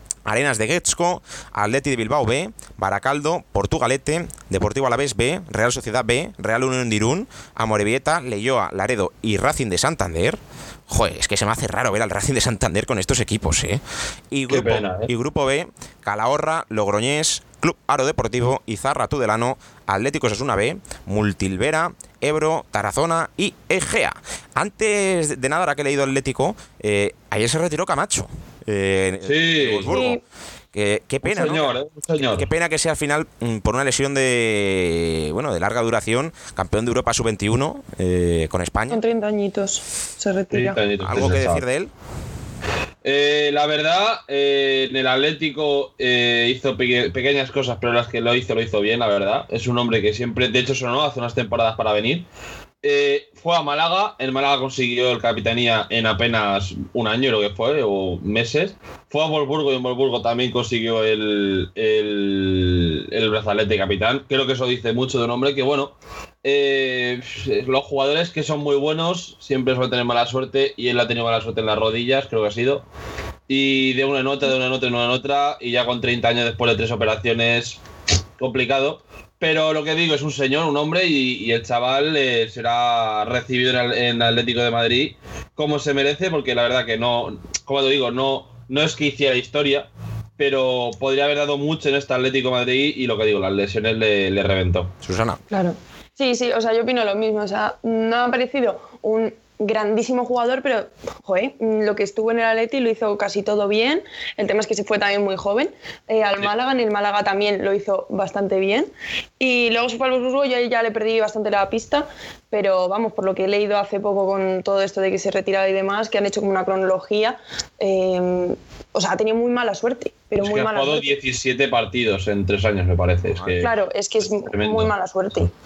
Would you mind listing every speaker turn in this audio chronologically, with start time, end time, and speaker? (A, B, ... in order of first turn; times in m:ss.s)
0:00.2-0:30.2 A
0:14.5-0:15.1 B
0:29.2-0:30.0 B
0:29.9-0:30.2 C
0:30.7-0:39.0 A
0:31.2-0:32.5 B
0:38.9-0:40.8 C
0:40.5-0:41.6 B
0:41.0-0:41.9 A
0:43.0-0:52.2 B
0:52.8-1:12.8 B
1:13.5-1:17.8 B
1:18.4-1:34.9 B
1:35.0-1:35.4 A
1:35.5-2:01.1 C
2:00.4-2:03.7 B
2:03.3-2:03.6 A
2:03.6-2:05.5 C
2:04.3-2:04.9 B